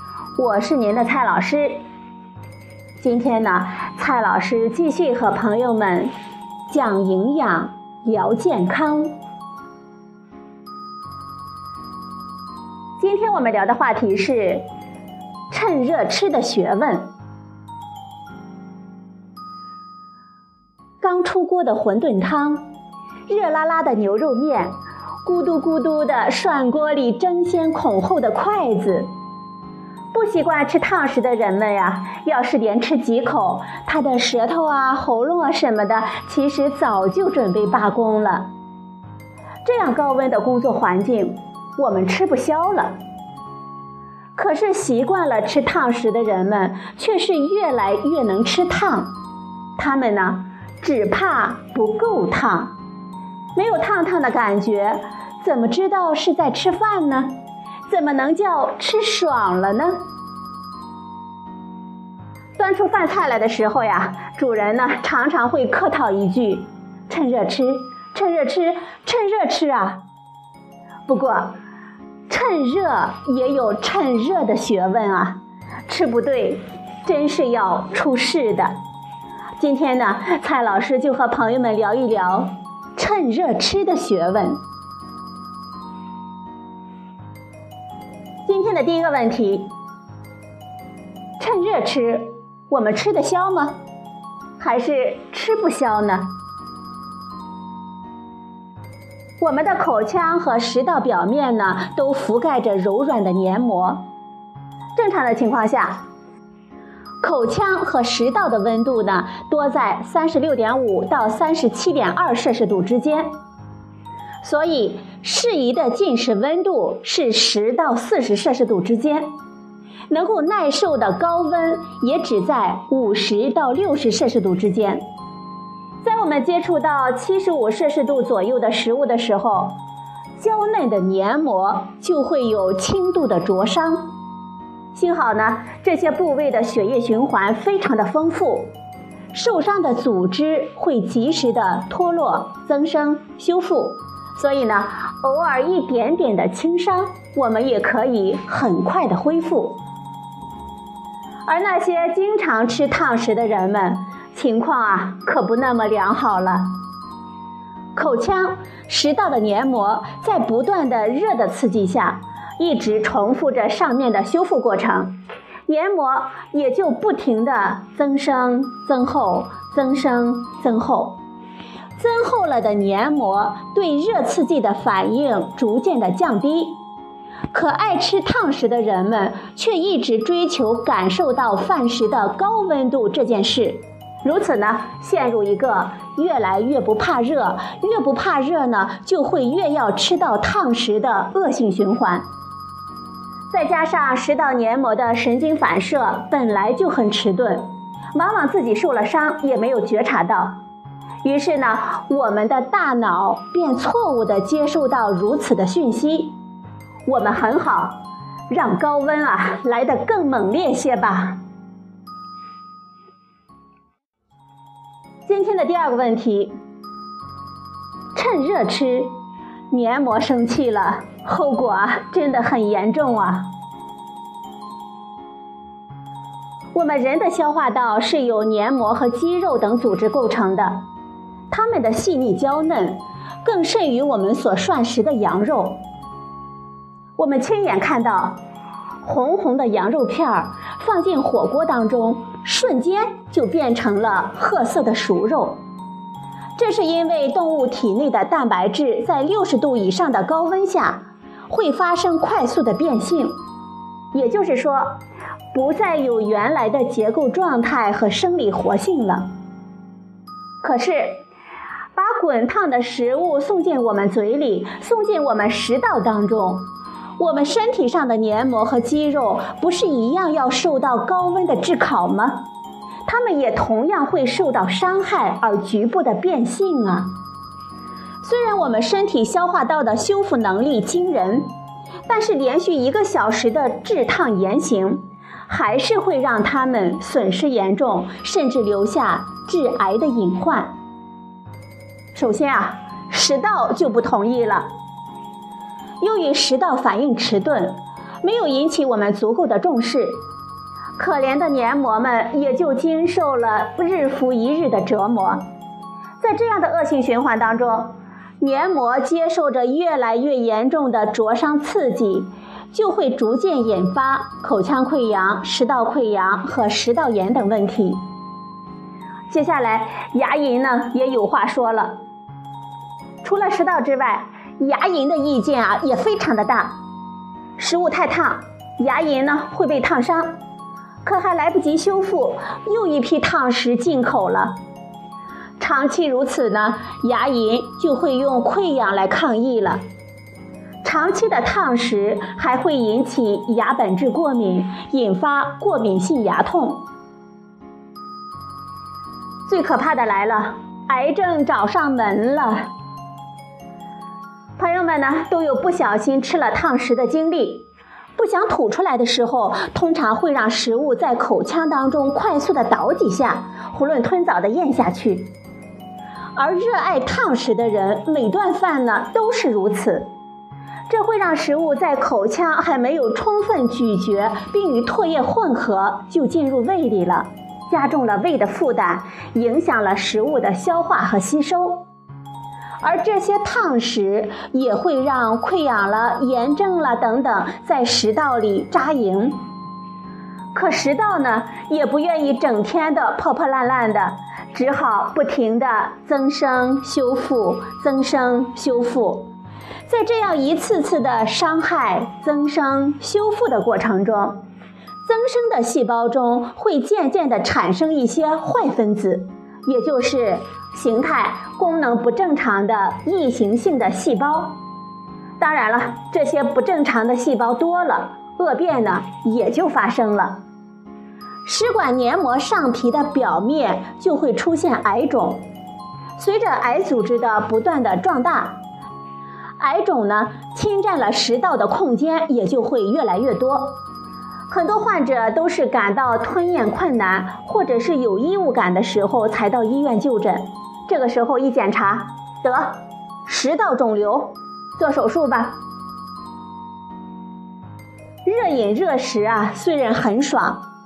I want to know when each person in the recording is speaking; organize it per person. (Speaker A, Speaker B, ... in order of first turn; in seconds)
Speaker A: 0.4-1.8, 3.0-6.1, 6.7-9.2, 13.0-14.7, 15.5-17.1, 21.0-22.7, 23.3-29.1, 30.1-38.5, 39.6-43.0, 44.4-49.1, 49.8-52.8, 53.5-57.4, 57.9-60.0, 62.6-70.0, 71.1-71.6, 72.3-78.8, 79.6-84.6, 88.5-89.7, 91.4-93.8, 94.6-96.3, 99.4-104.1, 105.0-106.0, 107.2-113.4, 114.4-119.3, 120.1-125.0, 126.0-129.8, 130.4-134.1, 134.9-138.7, 139.3-149.8, 151.4-156.8, 157.9-171.2, 172.0-176.8, 177.5-192.2, 193.5-200.6, 201.2-206.4, 207.1-211.4, 215.2-216.6, 218.1-219.2, 219.7-223.5, 226.7-230.8, 231.5-235.8, 237.2-238.4, 239.0-245.6, 246.6-253.4, 254.1-254.9, 255.5-259.3, 260.6-261.2, 261.9-272.5, 273.1-277.1, 278.2-281.5, 282.1-290.8, 292.1-294.7, 296.0-300.2, 301.0-305.4, 306.2-318.0, 319.3-322.0, 323.2-326.8, 327.6-330.4, 331.0-334.6, 335.6-339.8, 340.8-346.8, 349.4-352.7, 354.6-365.3, 366.4-370.1, 370.9-381.9, 382.8-389.4, 390.5-399.3, 399.9-404.4, 405.0-414.6, 415.4-420.4, 421.4-425.4, 426.2-428.6, 429.6-433.8, 434.5-445.6, 448.2-450.7